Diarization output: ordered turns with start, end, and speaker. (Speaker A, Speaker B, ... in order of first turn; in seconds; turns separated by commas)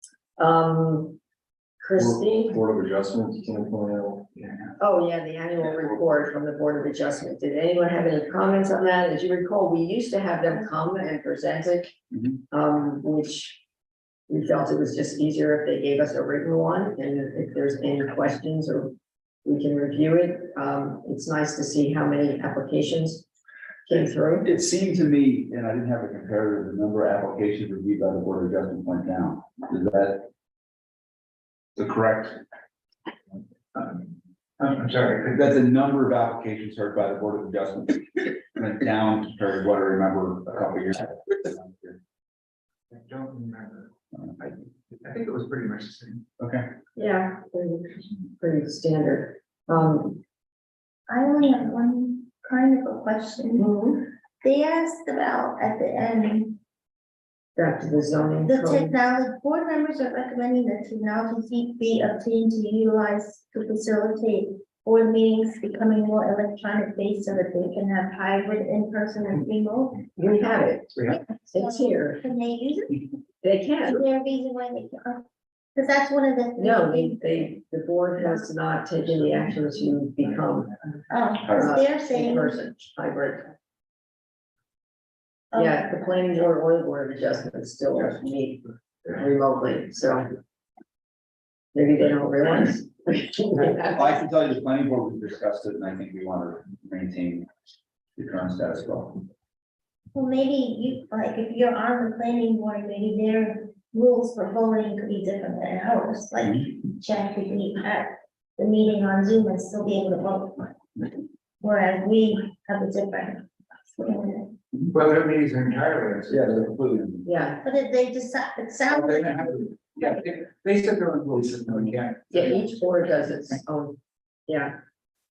Speaker A: 0.4-1.2, Speaker A: 1.8-2.6, Speaker A: 4.8-11.9, Speaker A: 12.5-13.6, Speaker A: 14.3-23.2, Speaker A: 23.9-24.5, Speaker B: 24.4-30.3, Speaker B: 31.8-32.4, Speaker C: 33.7-34.1, Speaker C: 34.6-35.4, Speaker B: 35.3-42.0, Speaker C: 42.9-46.2, Speaker B: 46.4-46.7, Speaker A: 47.0-50.2, Speaker D: 51.1-53.7, Speaker A: 53.6-54.1, Speaker D: 54.4-56.6, Speaker A: 57.5-58.9, Speaker D: 58.4-70.1, Speaker A: 70.2-70.9, Speaker D: 71.1-73.0, Speaker A: 71.5-72.2, Speaker A: 73.4-74.0, Speaker D: 73.8-77.2, Speaker A: 76.6-80.8, Speaker D: 81.1-82.6, Speaker A: 81.5-83.5, Speaker D: 85.5-85.8, Speaker A: 85.5-90.3, Speaker A: 91.7-94.0, Speaker B: 93.7-97.5, Speaker B: 98.2-99.2, Speaker D: 100.1-110.7, Speaker D: 111.6-114.5, Speaker C: 114.9-116.7, Speaker B: 116.3-117.2, Speaker A: 117.2-117.6, Speaker D: 117.6-119.4, Speaker C: 118.9-122.7, Speaker A: 122.3-124.7